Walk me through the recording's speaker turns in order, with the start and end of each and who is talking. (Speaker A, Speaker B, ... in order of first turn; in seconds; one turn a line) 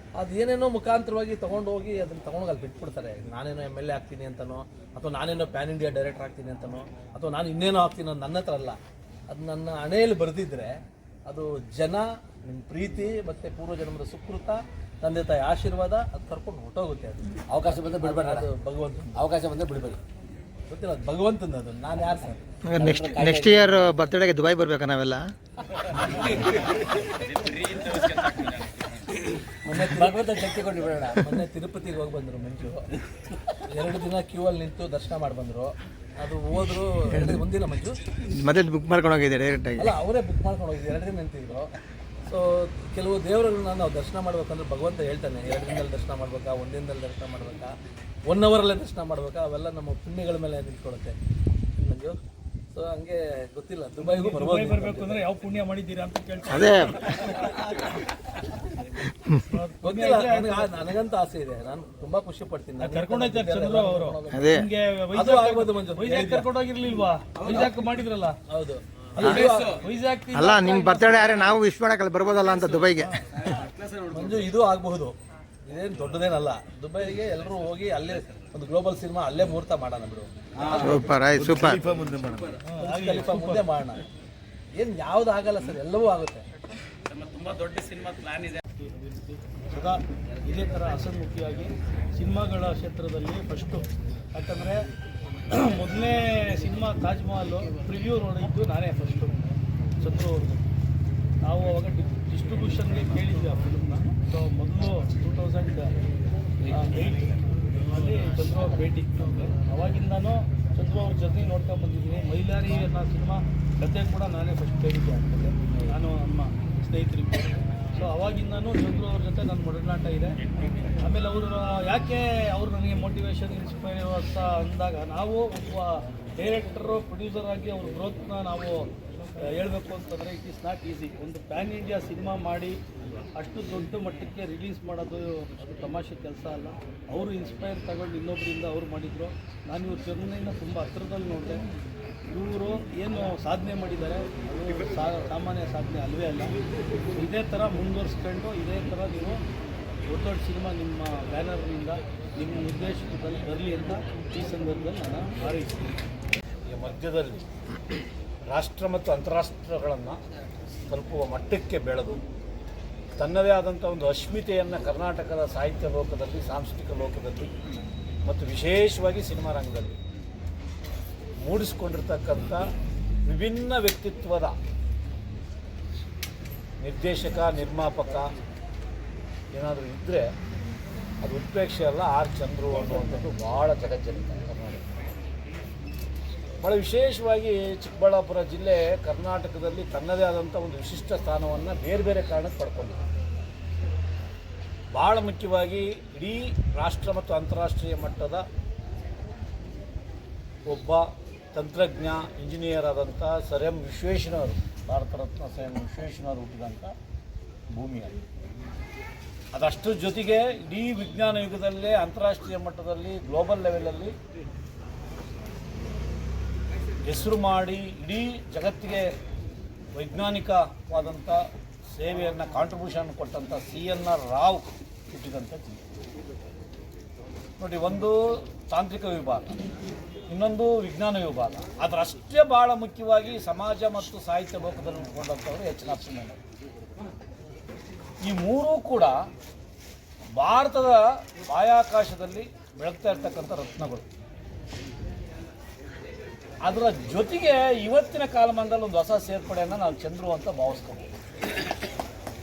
Speaker A: 0.2-8.8
Speaker A: 9.3-10.7
Speaker A: 11.3-17.4
Speaker B: 17.5-18.5
Speaker A: 18.0-19.2
Speaker B: 19.1-20.0
Speaker A: 20.7-22.4
Speaker C: 22.6-25.3
Speaker B: 22.8-24.0
Speaker A: 29.6-30.2
Speaker B: 29.8-31.4
Speaker A: 31.2-32.9
Speaker A: 33.7-38.0
Speaker C: 38.3-39.9
Speaker A: 39.8-41.7
Speaker A: 42.3-47.7
Speaker A: 48.3-51.1
Speaker A: 51.8-52.2
Speaker A: 52.7-55.2
Speaker D: 54.0-57.7
Speaker C: 56.5-56.9
Speaker D: 59.5-60.8
Speaker A: 59.8-64.5
Speaker D: 62.8-68.4
Speaker C: 64.3-64.7
Speaker A: 65.1-66.5
Speaker A: 68.5-69.8
Speaker D: 69.2-71.6
Speaker C: 70.3-73.1
Speaker D: 72.8-73.1
Speaker A: 74.1-75.2
Speaker A: 75.7-81.2
Speaker C: 80.8-81.8
Speaker E: 81.9-82.5
Speaker D: 82.6-83.7
Speaker A: 82.8-84.0
Speaker A: 84.8-86.5
Speaker D: 87.2-94.9
Speaker D: 95.5-100.6
Speaker D: 101.4-105.9
Speaker D: 106.7-120.4
Speaker D: 121.0-128.9
Speaker D: 129.5-132.8
Speaker D: 133.4-141.6
Speaker D: 142.3-146.6
Speaker D: 147.1-149.4
Speaker D: 150.1-155.9
Speaker E: 156.7-157.4
Speaker E: 158.5-160.2
Speaker E: 160.9-162.2
Speaker E: 163.2-167.5
Speaker E: 168.3-170.0
Speaker E: 171.4-172.6
Speaker E: 173.3-174.6
Speaker E: 176.8-178.3
Speaker E: 179.5-180.3
Speaker E: 181.2-184.8
Speaker E: 186.6-193.0
Speaker E: 194.9-198.4
Speaker E: 200.7-206.9
Speaker E: 207.7-208.2
Speaker E: 209.5-214.1
Speaker E: 217.0-219.1
Speaker E: 219.9-221.4
Speaker E: 221.9-225.8
Speaker E: 227.6-229.6
Speaker E: 230.3-236.4
Speaker E: 238.2-239.2
Speaker E: 240.4-244.1
Speaker E: 246.6-251.1